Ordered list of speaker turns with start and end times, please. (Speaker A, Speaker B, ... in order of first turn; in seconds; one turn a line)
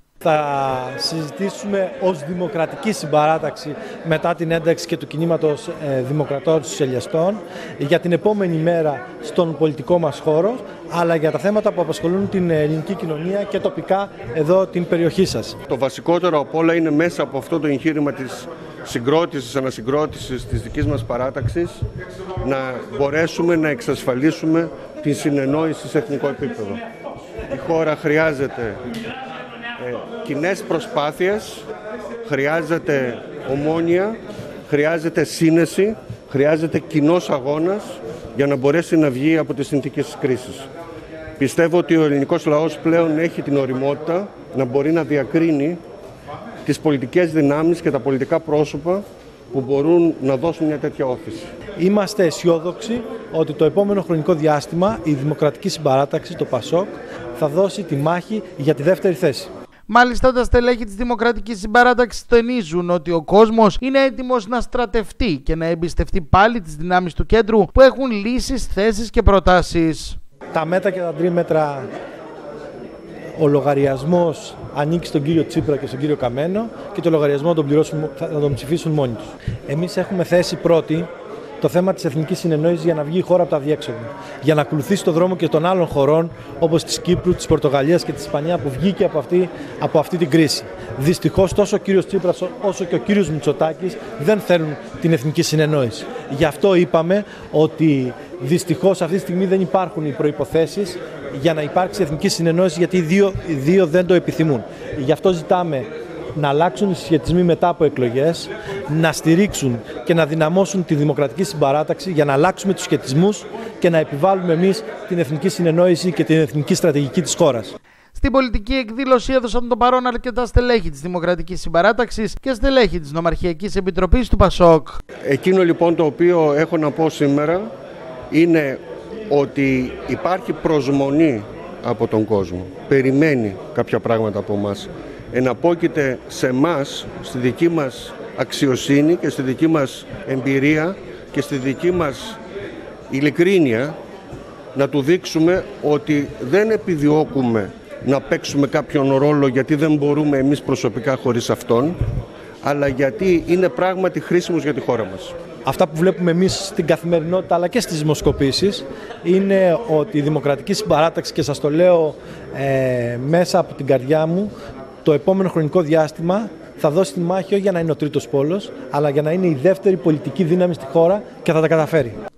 Speaker A: 0.2-15.6
Speaker B: 15.7-21.8
Speaker B: 22.4-26.8
Speaker B: 27.5-28.8
Speaker B: 29.8-31.6
Speaker B: 32.2-40.7
Speaker B: 41.4-45.8
Speaker B: 46.6-51.5
Speaker A: 51.8-59.5
Speaker C: 59.9-70.2
Speaker A: 70.5-71.9
Speaker A: 73.3-81.1
Speaker A: 81.6-117.7
Speaker C: 118.1-125.0
Speaker B: 125.2-127.7
Speaker B: 128.3-142.4
Speaker B: 143.1-143.9
Speaker B: 144.7-152.0
Speaker B: 152.6-155.3
Speaker A: 155.6-164.5
Speaker A: 165.0-172.2